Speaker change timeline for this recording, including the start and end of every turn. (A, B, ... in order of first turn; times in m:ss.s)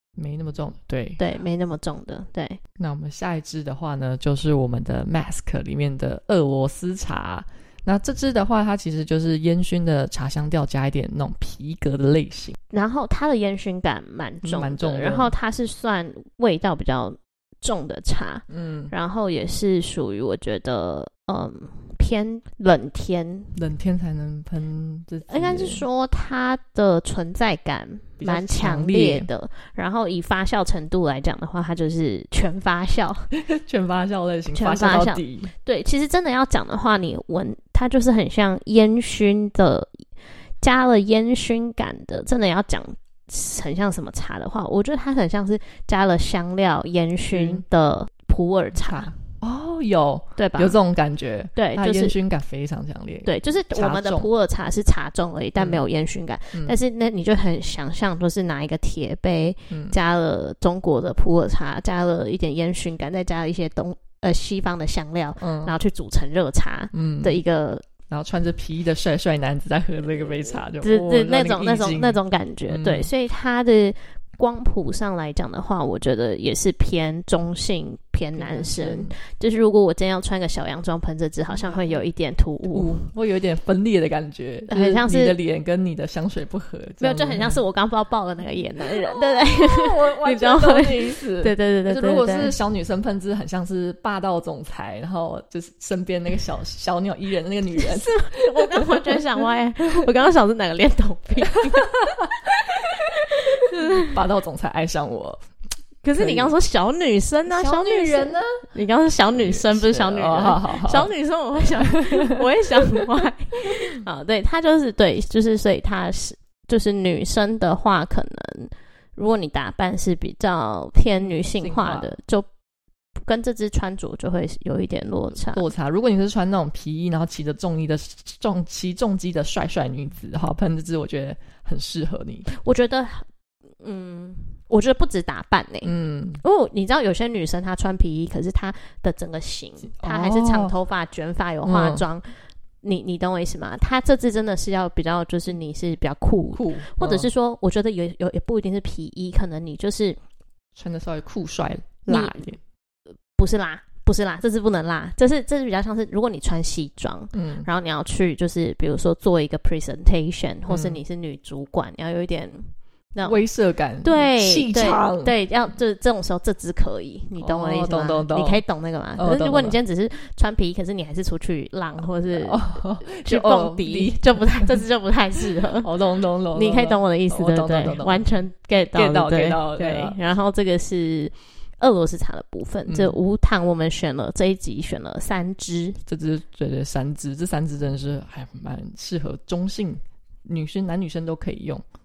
0:00.2-0:01.2 A
0:01.2-0:02.6 B
0:02.8-0:12.6 A
0:12.7-0:23.5 B
0:14.4-0:15.3 A
0:18.5-0:18.9 A
0:23.5-0:25.8 A
0:25.3-0:33.3 B
0:28.2-0:29.3 A
0:33.3-0:35.5 A
0:34.5-0:40.0 B
0:40.6-0:49.1 B
0:47.3-0:47.6 A
0:48.8-0:54.3 A
0:50.4-0:50.8 B
0:51.6-0:52.2 B
0:53.2-1:07.8 B
0:55.6-0:55.8 A
0:59.7-1:00.0 A
1:05.4-1:05.7 A
1:06.9-1:07.4 A
1:08.1-1:13.1 A
1:10.8-1:23.0 B
1:18.3-1:19.1 A
1:21.5-1:22.0 A
1:22.7-1:27.6 A
1:24.7-1:25.4 B
1:27.0-1:32.5 B
1:29.1-1:39.2 A
1:37.8-1:44.2 B
1:41.6-1:42.3 A
1:43.7-1:45.5 A
1:46.0-2:02.5 B
1:46.1-1:46.6 A
1:47.5-1:48.7 A
1:49.3-1:51.1 A
1:51.6-1:52.4 A
2:01.2-2:02.1 A
2:03.2-2:05.7 B
2:05.4-2:12.5 A
2:12.5-2:13.3 B
2:13.8-2:30.2 B
2:15.8-2:16.4 A
2:19.8-2:20.7 A
2:21.6-2:22.0 A
2:26.5-2:27.3 A
2:30.8-2:32.6 A
2:32.1-2:32.5 B
2:33.4-2:43.4 B
2:37.3-2:37.7 A
2:40.7-2:41.0 A
2:43.2-2:45.3 A
2:44.0-2:55.9 B
2:47.4-2:48.6 A
2:49.2-2:49.8 A
2:52.0-2:54.8 A
2:55.6-2:58.3 A
2:56.5-3:06.0 B
2:58.9-3:00.2 A
3:02.9-3:03.2 A
3:06.0-3:11.8 A